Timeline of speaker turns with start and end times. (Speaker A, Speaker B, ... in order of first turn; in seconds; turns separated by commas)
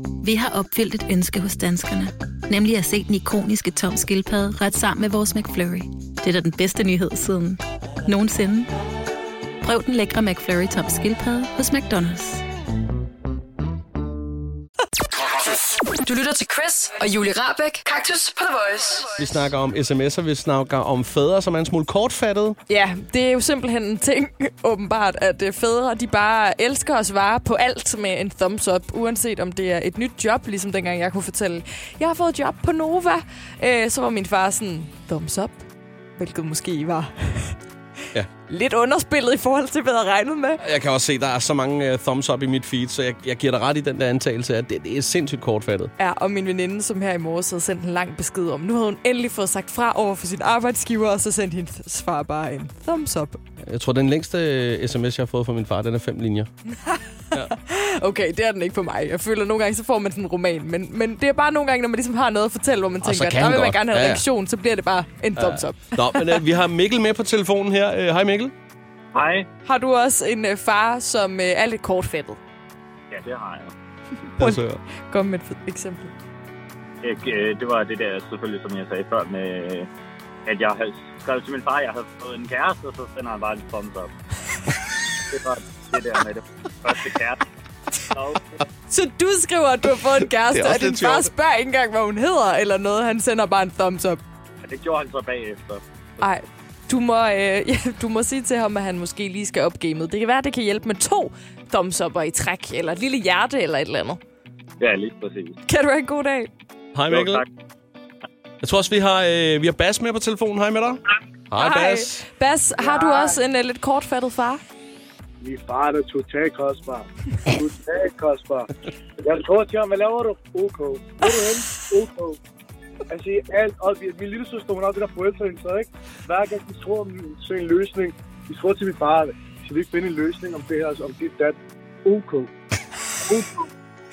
Speaker A: 0.2-8.7, Speaker A: 9.6-12.4, Speaker B: 15.2-19.1, Speaker C: 19.2-22.6, Speaker D: 22.7-35.6, Speaker D: 36.2-37.6, Speaker D: 38.5-40.6, Speaker C: 40.6-45.9, Speaker D: 46.0-53.4, Speaker C: 53.6-56.5, Speaker D: 56.8-66.4, Speaker C: 63.0-64.2, Speaker C: 65.4-68.5, Speaker E: 69.1-69.5, Speaker D: 69.7-72.4, Speaker E: 73.1-73.7, Speaker C: 74.4-74.8, Speaker D: 74.4-76.1, Speaker E: 77.0-79.9, Speaker E: 80.5-84.1, Speaker E: 85.3-87.4, Speaker E: 88.0-88.5, Speaker D: 88.9-94.2, Speaker C: 90.4-91.3, Speaker E: 94.6-95.8, Speaker D: 96.2-104.2, Speaker E: 104.8-105.6, Speaker D: 105.7-106.5, Speaker C: 106.9-107.5, Speaker E: 107.1-107.5, Speaker C: 108.6-112.3, Speaker D: 111.6-114.6, Speaker F: 112.8-113.3, Speaker F: 115.4-118.7, Speaker F: 119.2-122.4, Speaker F: 123.1-132.5, Speaker F: 133.2-133.7